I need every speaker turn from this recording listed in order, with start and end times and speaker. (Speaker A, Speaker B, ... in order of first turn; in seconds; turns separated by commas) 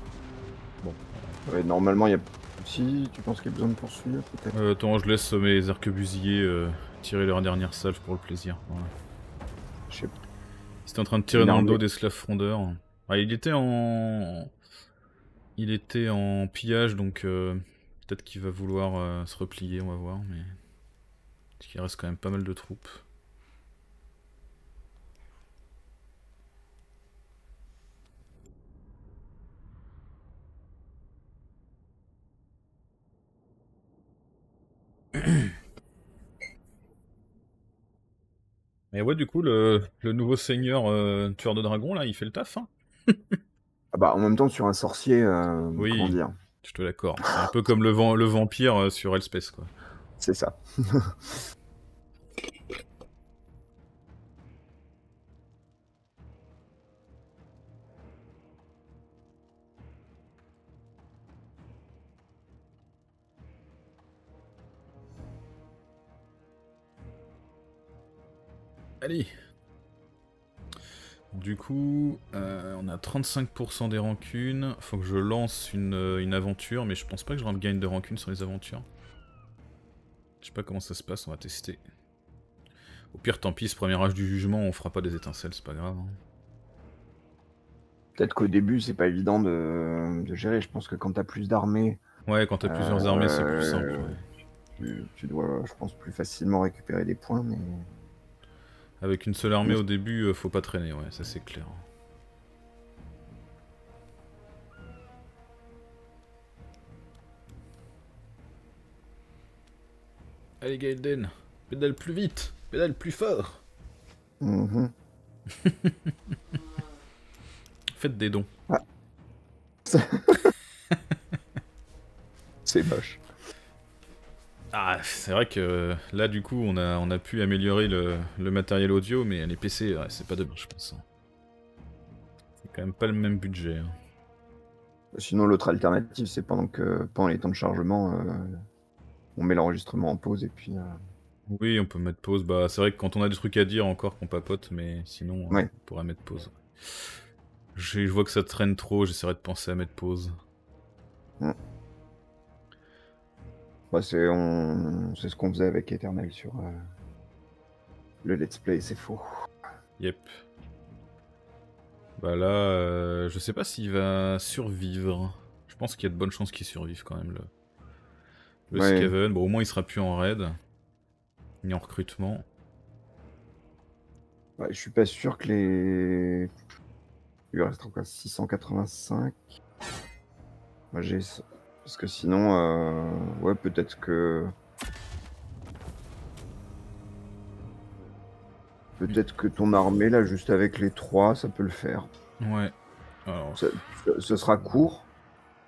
Speaker A: 0.8-1.4, Speaker B: 1.4-4.5, Speaker A: 4.5-8.9, Speaker B: 9.9-10.1, Speaker A: 10.8-14.5, Speaker B: 11.3-11.8, Speaker A: 15.6-20.6, Speaker A: 21.6-23.0, Speaker A: 38.9-43.4, Speaker B: 43.9-46.3, Speaker A: 45.8-49.7, Speaker B: 50.2-51.3, Speaker A: 69.0-69.3, Speaker A: 71.3-78.8, Speaker A: 80.4-81.8, Speaker A: 83.1-86.2, Speaker B: 88.2-92.0, Speaker A: 92.3-94.2, Speaker B: 92.6-94.2, Speaker B: 94.8-97.9, Speaker A: 99.0-101.8, Speaker A: 110.6-113.6, Speaker B: 114.4-114.9, Speaker A: 115.5-116.3, Speaker A: 117.9-118.5, Speaker B: 119.8-120.5, Speaker B: 122.7-123.2, Speaker A: 124.7-131.0, Speaker A: 132.6-133.9, Speaker B: 135.1-138.6, Speaker B: 139.3-141.0, Speaker A: 141.5-147.0, Speaker A: 147.7-150.3, Speaker B: 153.9-156.8, Speaker B: 158.2-159.2, Speaker A: 160.0-160.4, Speaker A: 162.2-167.5, Speaker A: 168.7-170.6, Speaker B: 168.7-169.1, Speaker A: 171.6-172.4, Speaker B: 174.6-176.5, Speaker B: 177.5-179.4, Speaker B: 180.9-184.5, Speaker B: 189.0-192.1, Speaker A: 192.4-192.7, Speaker A: 193.2-193.7, Speaker B: 193.6-195.1